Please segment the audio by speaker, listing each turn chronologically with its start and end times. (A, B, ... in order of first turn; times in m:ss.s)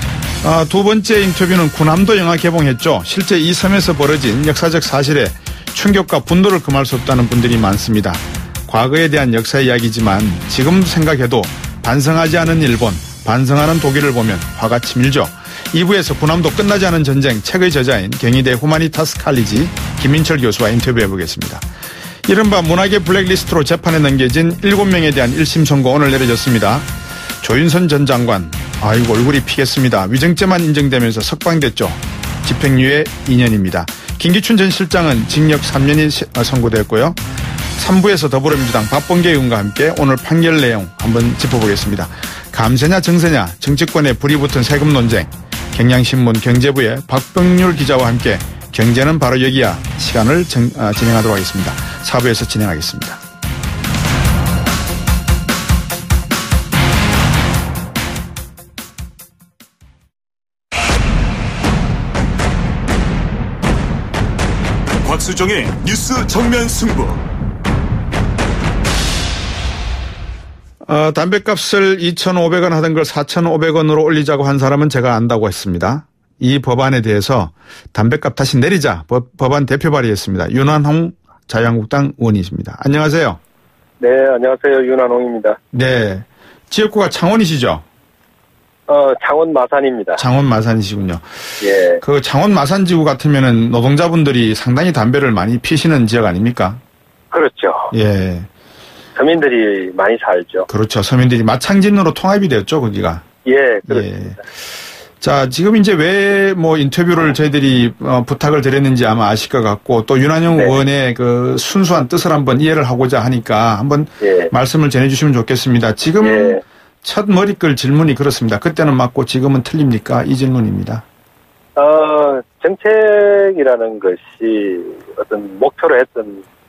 0:00.4-0:21.6 A
0:22.3-0:26.9 A
0:27.4-0:37.2 A
0:37.8-0:53.2 A
1:05.0-1:07.2 B
1:10.8-1:23.4 A
1:24.0-1:25.6 C
1:25.7-1:27.8 A
1:28.9-1:30.3 C
1:30.2-1:31.2 A
1:31.6-1:32.0 C
1:31.9-1:36.8 A
1:37.3-1:37.9 C
1:37.9-1:38.5 A
1:39.1-1:40.7 C
1:40.7-1:43.2 A
1:43.4-1:44.3 C
1:43.9-1:44.4 A
1:45.2-2:01.0 A
1:50.5-1:50.8 C
1:54.2-1:54.5 C
1:56.2-1:56.6 C
2:01.8-2:06.4 C